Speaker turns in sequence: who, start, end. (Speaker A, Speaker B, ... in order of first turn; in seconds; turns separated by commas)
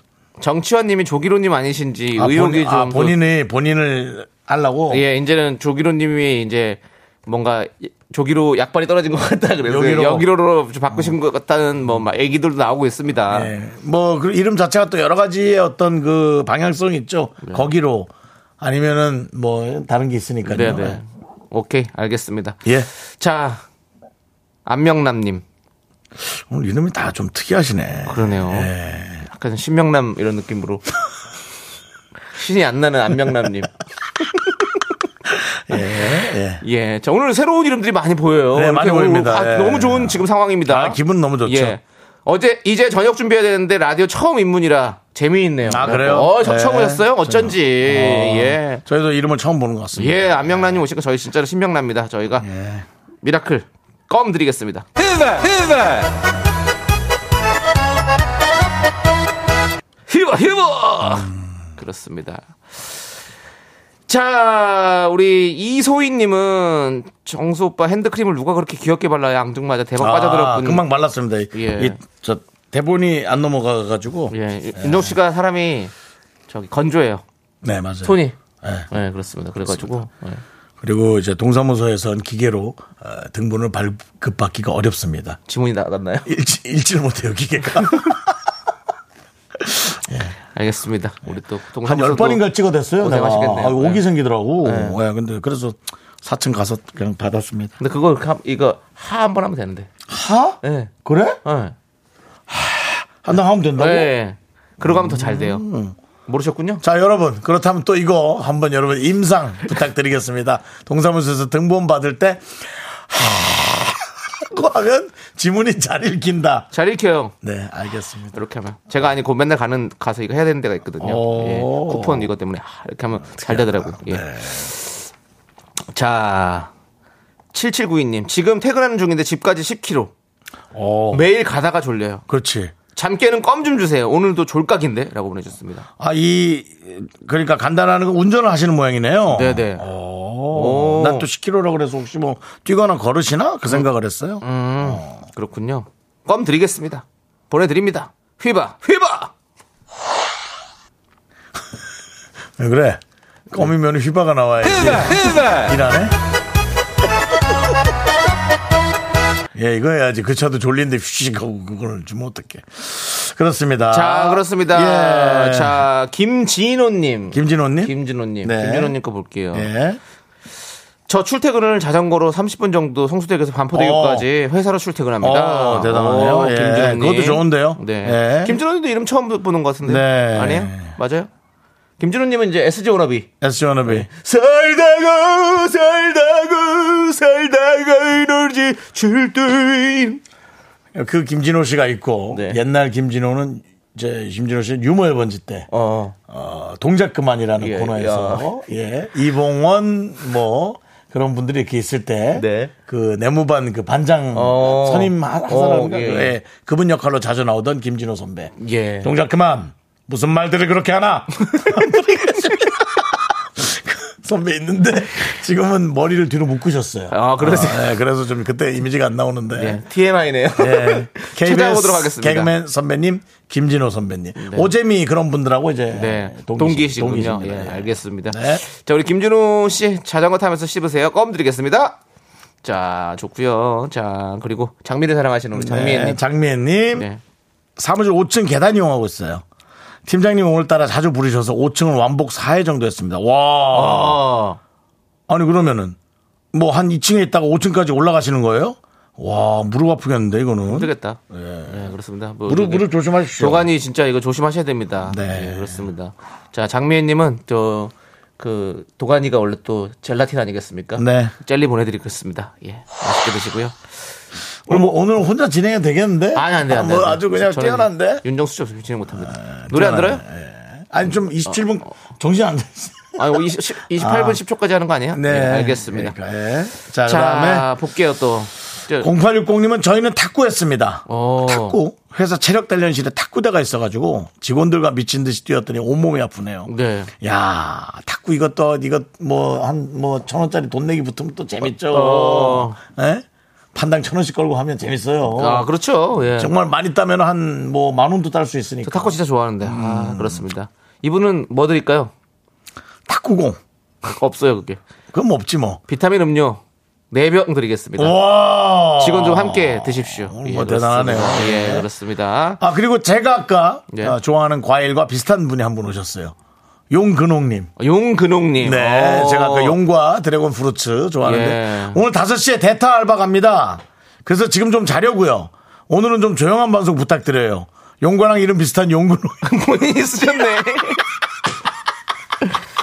Speaker A: 0.4-3.1, Speaker B: 2.1-5.0, Speaker A: 4.9-13.5, Speaker B: 9.7-10.3, Speaker B: 13.3-21.0, Speaker A: 20.4-23.6, Speaker A: 24.6-25.4, Speaker B: 26.2-29.2, Speaker A: 28.1-28.7, Speaker A: 29.2-30.8, Speaker A: 32.3-33.7, Speaker B: 35.3-36.6, Speaker A: 36.6-48.8, Speaker B: 38.5-41.8, Speaker B: 45.6-50.8, Speaker A: 50.0-52.5, Speaker B: 52.4-52.9, Speaker A: 53.2-56.1, Speaker A: 60.1-63.0, Speaker B: 61.0-61.5, Speaker A: 64.1-70.8, Speaker B: 70.0-75.1, Speaker A: 71.5-72.0, Speaker A: 74.3-75.9, Speaker A: 76.5-77.2, Speaker B: 77.6-78.9, Speaker A: 78.0-78.3, Speaker A: 78.9-80.4, Speaker B: 80.8-85.4, Speaker A: 85.5-86.3, Speaker B: 86.2-88.4, Speaker B: 89.6-90.3, Speaker A: 90.5-92.4, Speaker B: 91.8-97.8, Speaker A: 93.0-94.0, Speaker A: 94.6-95.0, Speaker A: 97.8-99.9, Speaker B: 100.1-101.4, Speaker A: 100.6-100.9, Speaker A: 101.4-101.7, Speaker B: 102.5-104.1, Speaker A: 103.8-105.6, Speaker B: 104.8-106.0, Speaker A: 106.3-106.8, Speaker B: 106.8-116.7, Speaker A: 116.7-117.3, Speaker B: 117.4-118.3, Speaker A: 118.3-125.0, Speaker B: 121.0-122.3, Speaker B: 123.3-124.7, Speaker A: 125.9-126.7, Speaker A: 127.5-130.1, Speaker B: 130.7-131.3, Speaker A: 131.1-132.2, Speaker B: 132.3-132.7, Speaker A: 132.9-135.9, Speaker B: 136.0-145.2, Speaker A: 139.3-139.8, Speaker A: 140.5-141.3, Speaker A: 144.4-149.3, Speaker B: 152.6-156.2, Speaker B: 159.5-165.8, Speaker A: 163.9-169.7, Speaker B: 167.3-168.9, Speaker B: 169.5-170.0, Speaker A: 171.1-181.3, Speaker B: 173.7-174.3, Speaker B: 175.2-178.6, Speaker B: 179.8-180.9, Speaker A: 182.0-183.3, Speaker B: 183.4-184.1, Speaker A: 183.8-190.2, Speaker B: 190.9-195.7, Speaker A: 192.3-192.6, Speaker A: 195.7-196.1, Speaker B: 196.3-219.8, Speaker A: 197.6-198.5, Speaker A: 202.3-202.7, Speaker A: 204.3-206.3, Speaker A: 208.6-209.1, Speaker A: 211.5-212.2, Speaker A: 217.1-217.9, Speaker A: 219.6-222.5, Speaker B: 220.6-228.6, Speaker A: 224.4-224.7, Speaker A: 225.9-232.0, Speaker A: 232.6-236.2, Speaker B: 235.5-237.1, Speaker A: 236.9-237.2, Speaker B: 237.8-239.4, Speaker B: 240.1-244.2, Speaker A: 243.7-244.6, Speaker B: 245.3-245.9, Speaker B: 246.5-251.9, Speaker A: 250.7-263.8, Speaker B: 252.4-253.7, Speaker B: 255.1-255.9, Speaker B: 260.9-261.3, Speaker B: 264.7-268.2, Speaker A: 266.3-270.2, Speaker B: 269.2-273.4, Speaker A: 273.1-276.1, Speaker B: 273.9-274.4, Speaker B: 275.1-277.7, Speaker A: 277.0-279.1, Speaker B: 279.0-295.7, Speaker A: 281.1-281.8, Speaker A: 286.7-287.1, Speaker A: 291.9-292.8, Speaker A: 295.3-296.5, Speaker B: 296.4-300.4, Speaker A: 298.8-302.1, Speaker B: 303.1-303.6, Speaker A: 304.0-304.8, Speaker B: 305.1-305.8, Speaker A: 305.9-308.1, Speaker B: 308.0-311.9, Speaker A: 309.0-312.6, Speaker B: 312.6-316.3, Speaker A: 313.9-314.2, Speaker B: 316.9-317.7, Speaker A: 317.8-319.8, Speaker B: 318.6-329.4, Speaker A: 321.2-322.0, Speaker A: 329.4-331.0